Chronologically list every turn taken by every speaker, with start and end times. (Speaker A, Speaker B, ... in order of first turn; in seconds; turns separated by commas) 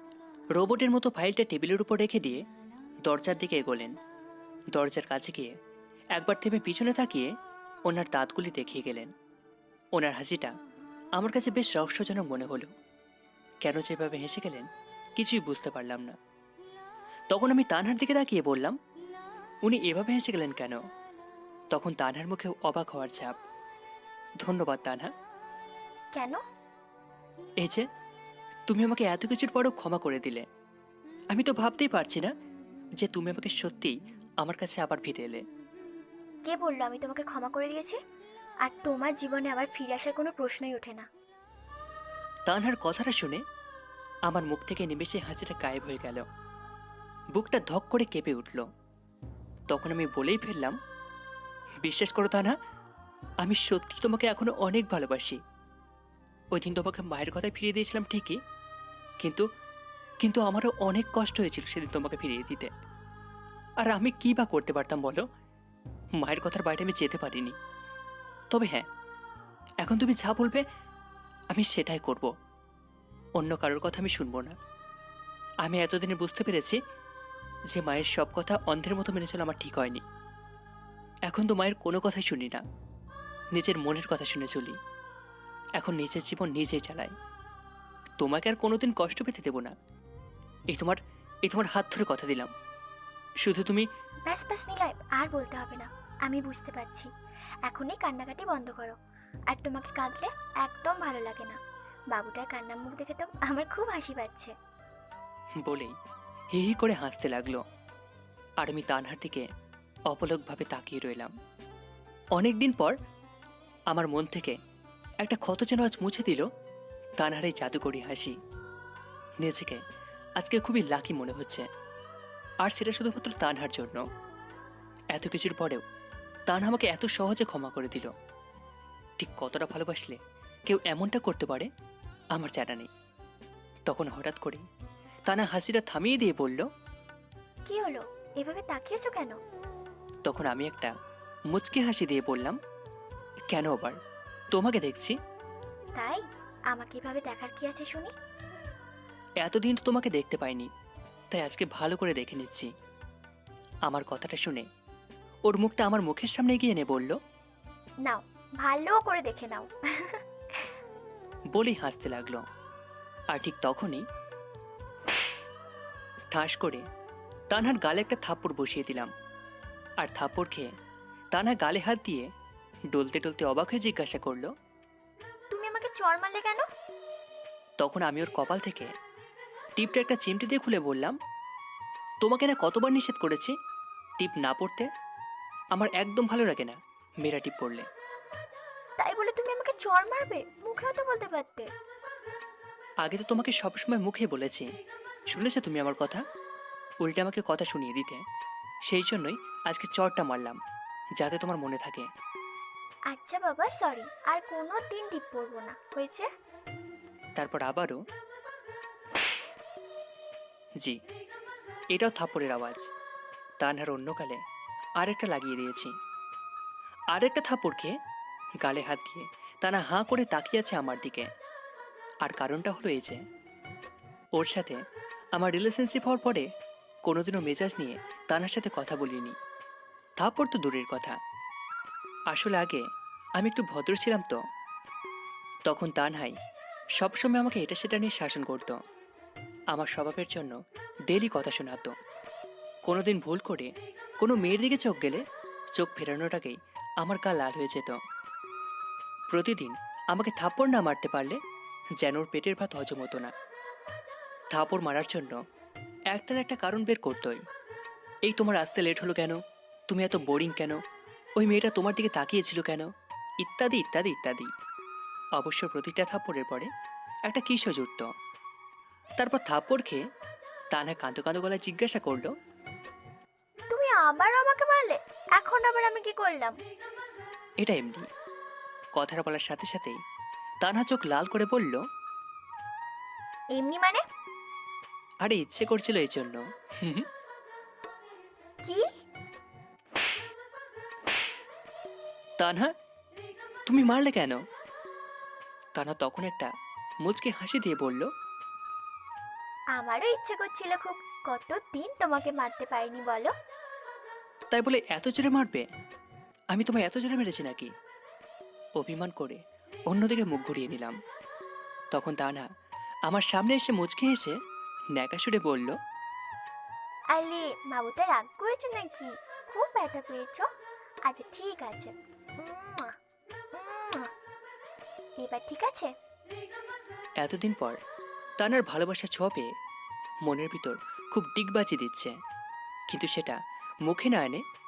Speaker A: 0.6-2.4, Speaker A: 3.0-4.0, Speaker A: 4.8-5.5, Speaker A: 6.2-7.3, Speaker A: 7.9-9.1, Speaker A: 9.9-10.5, Speaker A: 11.2-12.7, Speaker A: 13.6-16.1, Speaker A: 17.3-18.8, Speaker A: 19.6-20.8, Speaker A: 21.7-23.4, Speaker A: 24.4-25.1, Speaker B: 26.1-26.4, Speaker A: 27.6-27.9, Speaker A: 28.7-30.4, Speaker A: 31.3-32.3, Speaker A: 33.0-35.4, Speaker B: 36.5-38.0, Speaker B: 38.6-41.1, Speaker A: 42.5-43.4, Speaker A: 44.3-46.2, Speaker A: 47.3-48.6, Speaker A: 49.7-50.8, Speaker A: 51.8-52.5, Speaker A: 53.4-55.4, Speaker A: 56.5-58.4, Speaker A: 59.2-59.5, Speaker A: 60.2-62.7, Speaker A: 63.8-65.2, Speaker A: 66.2-67.6, Speaker A: 68.5-68.9, Speaker A: 69.8-70.6, Speaker A: 71.5-72.3, Speaker A: 73.4-74.5, Speaker A: 75.6-76.8, Speaker A: 77.7-80.0, Speaker A: 81.3-82.6, Speaker A: 83.5-84.8, Speaker A: 85.8-87.1, Speaker A: 88.2-89.7, Speaker A: 90.7-92.5, Speaker A: 93.4-93.9, Speaker B: 94.3-97.1, Speaker B: 97.6-99.0, Speaker B: 99.5-101.6, Speaker B: 102.1-104.5, Speaker A: 105.6-106.0, Speaker A: 106.5-107.6, Speaker A: 108.6-109.5, Speaker A: 110.1-111.3, Speaker A: 112.3-112.9, Speaker A: 113.9-114.6, Speaker A: 115.2-116.5, Speaker A: 117.2-118.4, Speaker A: 119.4-119.8, Speaker A: 120.4-121.7, Speaker A: 122.6-124.0, Speaker A: 125.1-125.8, Speaker A: 126.5-128.1, Speaker A: 129.2-131.7, Speaker A: 132.3-132.9, Speaker A: 133.9-134.6, Speaker A: 135.3-136.7, Speaker B: 137.7-139.4, Speaker A: 140.2-140.9, Speaker A: 141.5-142.6, Speaker A: 143.5-144.0, Speaker A: 144.5-145.2, Speaker B: 145.9-148.1, Speaker A: 149.4-150.7, Speaker A: 151.3-152.7, Speaker A: 153.8-154.6, Speaker A: 155.5-157.2, Speaker B: 158.0-160.7, Speaker A: 161.5-162.4, Speaker A: 163.3-164.0, Speaker A: 166.3-166.8, Speaker A: 167.5-169.1, Speaker A: 170.0-170.7, Speaker A: 171.3-172.3, Speaker A: 172.9-174.5, Speaker B: 175.5-176.7, Speaker A: 177.8-178.9, Speaker A: 179.8-181.2, Speaker A: 182.2-183.5, Speaker A: 184.2-184.9, Speaker A: 185.7-187.9, Speaker B: 189.0-191.7, Speaker A: 193.0-194.7, Speaker A: 195.3-196.2, Speaker A: 197.0-198.2, Speaker A: 198.9-200.6, Speaker A: 201.2-202.1, Speaker B: 203.1-206.3, Speaker A: 207.4-208.0, Speaker A: 211.9-212.9, Speaker A: 213.6-214.4, Speaker A: 215.0-215.9, Speaker A: 217.1-218.0, Speaker A: 218.6-221.3, Speaker A: 222.2-223.2, Speaker A: 224.3-224.8, Speaker A: 225.3-226.5, Speaker A: 227.1-229.3, Speaker A: 230.2-231.2, Speaker A: 232.3-232.8, Speaker A: 233.4-234.4, Speaker A: 235.7-236.3, Speaker A: 237.0-238.8, Speaker A: 239.7-240.6, Speaker A: 241.1-241.9, Speaker A: 242.8-245.2, Speaker A: 245.8-248.0, Speaker A: 249.3-251.4, Speaker A: 252.0-253.3, Speaker A: 254.5-255.4, Speaker A: 256.1-257.4, Speaker A: 258.3-260.8, Speaker A: 261.4-262.9, Speaker A: 263.4-264.5, Speaker A: 265.4-266.7, Speaker A: 267.2-268.1, Speaker A: 269.2-270.0, Speaker A: 270.7-272.3, Speaker B: 273.7-276.6, Speaker A: 277.6-278.1, Speaker A: 278.9-280.0, Speaker A: 280.6-281.8, Speaker B: 283.6-284.0, Speaker A: 285.2-287.1, Speaker A: 292.4-292.7, Speaker A: 293.7-294.4, Speaker A: 295.8-296.5, Speaker A: 297.0-298.1, Speaker B: 299.8-303.3, Speaker A: 304.5-305.7, Speaker A: 306.5-307.7, Speaker A: 308.8-310.9, Speaker A: 311.9-312.5, Speaker A: 313.1-314.4, Speaker A: 314.9-315.8, Speaker B: 317.1-320.5, Speaker B: 321.1-322.9, Speaker B: 323.5-324.1, Speaker B: 325.2-325.9, Speaker A: 327.2-327.8, Speaker A: 328.4-329.5, Speaker A: 330.2-332.1, Speaker A: 332.9-334.4